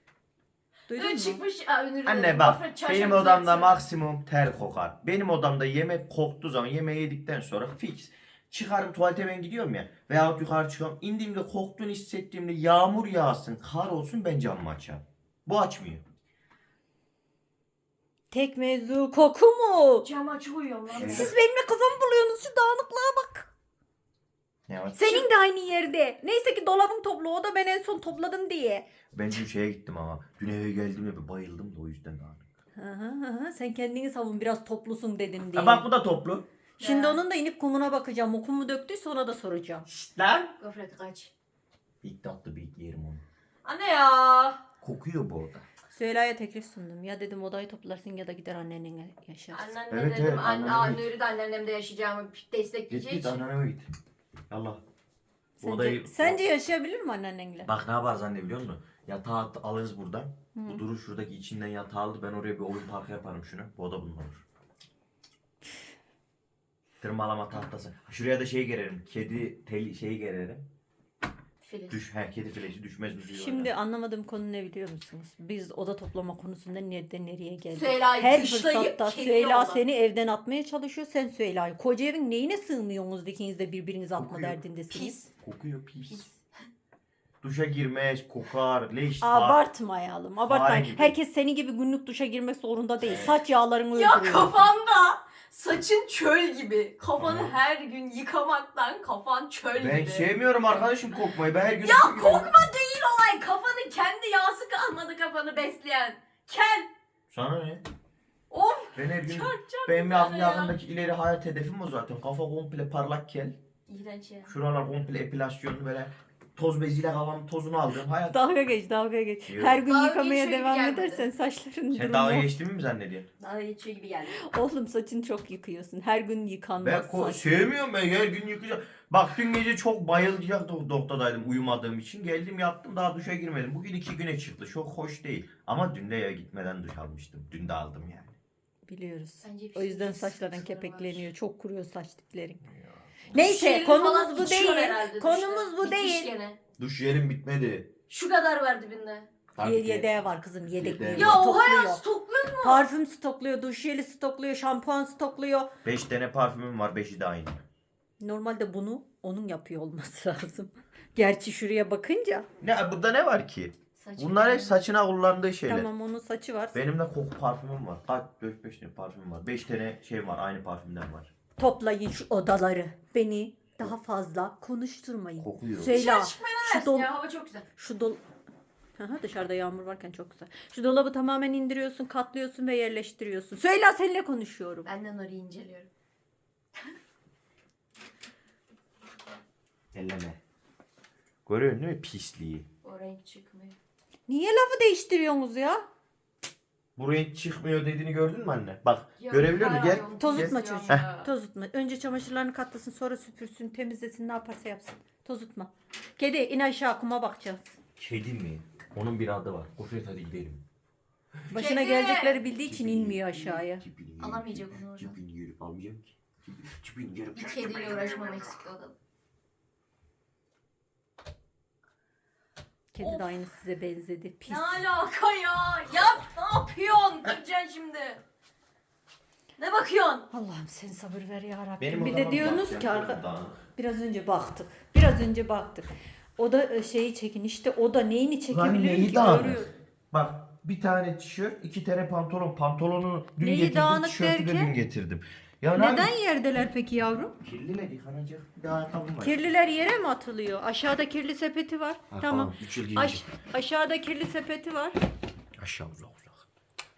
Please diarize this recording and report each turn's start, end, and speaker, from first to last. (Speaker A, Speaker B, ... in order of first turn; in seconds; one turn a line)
Speaker A: 0.9-1.4
Speaker B: 0.9-3.8
Speaker C: 2.0-16.0
Speaker A: 18.3-20.1
Speaker B: 20.0-21.3
Speaker C: 20.9-21.3
Speaker A: 21.0-23.5
Speaker C: 24.7-25.3
Speaker A: 24.9-28.8
Speaker C: 29.1-32.5
Speaker A: 32.8-35.9
Speaker C: 35.5-36.5
Speaker B: 36.8-37.2
Speaker A: 36.8-39.9
Speaker C: 39.9-40.5
Speaker B: 40.6-41.3
Speaker C: 42.0-43.2
Speaker B: 43.6-44.6
Speaker C: 44.8-45.6
Speaker A: 45.9-49.8
Speaker B: 49.5-53.4
Speaker C: 49.9-51.0
Speaker C: 52.9-53.9
Speaker C: 54.5-54.8
Speaker A: 55.6-57.7
Speaker C: 55.6-56.4
Speaker C: 57.6-64.4
Speaker A: 60.5-60.8
Speaker C: 67.0-70.6
Speaker B: 71.6-72.1
Speaker C: 71.9-73.7
Speaker A: 73.3-85.2
Speaker B: 77.7-79.8
Speaker C: 84.2-84.6
Speaker B: 84.9-85.3
Speaker C: 85.4-86.2
Speaker B: 86.1-86.4
Speaker C: 87.4-89.6
Speaker A: 89.2-94.5
Speaker C: 90.4-91.2
Speaker C: 93.0-93.4
Speaker B: 93.9-100.3
Speaker C: 97.2-97.6
Speaker C: 99.7-102.5
Speaker B: 101.8-106.9
Speaker C: 107.3-107.8
Speaker B: 108.5-110.8
Speaker C: 109.0-113.5
Speaker B: 113.9-114.5
Speaker C: 114.5-118.4
Speaker A: 118.3-122.6
Speaker C: 119.5-119.8
Speaker B: 119.8-121.3
Speaker C: 121.9-123.3
Speaker B: 123.4-124.4
Speaker A: 124.4-127.6
Speaker C: 126.8-138.3
Speaker A: 138.9-142.7
Speaker B: 139.4-141.3
Speaker B: 143.3-146.6
Speaker A: 143.3-146.3
Speaker C: 146.8-147.9
Speaker B: 148.1-149.3
Speaker C: 149.5-150.2
Speaker A: 149.6-152.0
Speaker C: 150.7-151.4
Speaker B: 151.1-152.8
Speaker A: 152.6-155.7
Speaker C: 155.8-157.6
Speaker A: 158.2-162.5
Speaker C: 162.6-165.9
Speaker B: 164.0-164.8
Speaker A: 165.7-166.8
Speaker C: 166.7-171.3
Speaker A: 171.6-177.1
Speaker C: 175.4-175.9
Speaker B: 175.9-177.7
Speaker A: 177.8-178.2
Speaker A: 179.0-184.9
Speaker B: 184.8-185.9
Speaker C: 189.9-190.4
Speaker C: 191.4-192.7
Speaker B: 192.8-193.8
Speaker A: 194.3-195.8
Speaker C: 196.9-201.1
Speaker B: 199.2-201.3
Speaker A: 200.2-207.8
Speaker C: 208.0-210.6
Speaker A: 211.5-213.8
Speaker B: 211.5-212.4
Speaker C: 212.4-218.3
Speaker B: 214.2-215.2
Speaker B: 217.3-218.9
Speaker A: 222.9-224.8
Speaker B: 223.0-223.3
Speaker B: 224.4-228.2
Speaker B: 229.6-230.3
Speaker A: 230.3-233.2
Speaker C: 231.8-233.6
Speaker A: 233.7-239.7
Speaker C: 238.5-246.1
Speaker A: 243.4-244.7
Speaker A: 245.7-247.3
Speaker C: 247.4-249.5
Speaker A: 249.2-254.9
Speaker C: 252.1-253.3
Speaker C: 255.6-256.4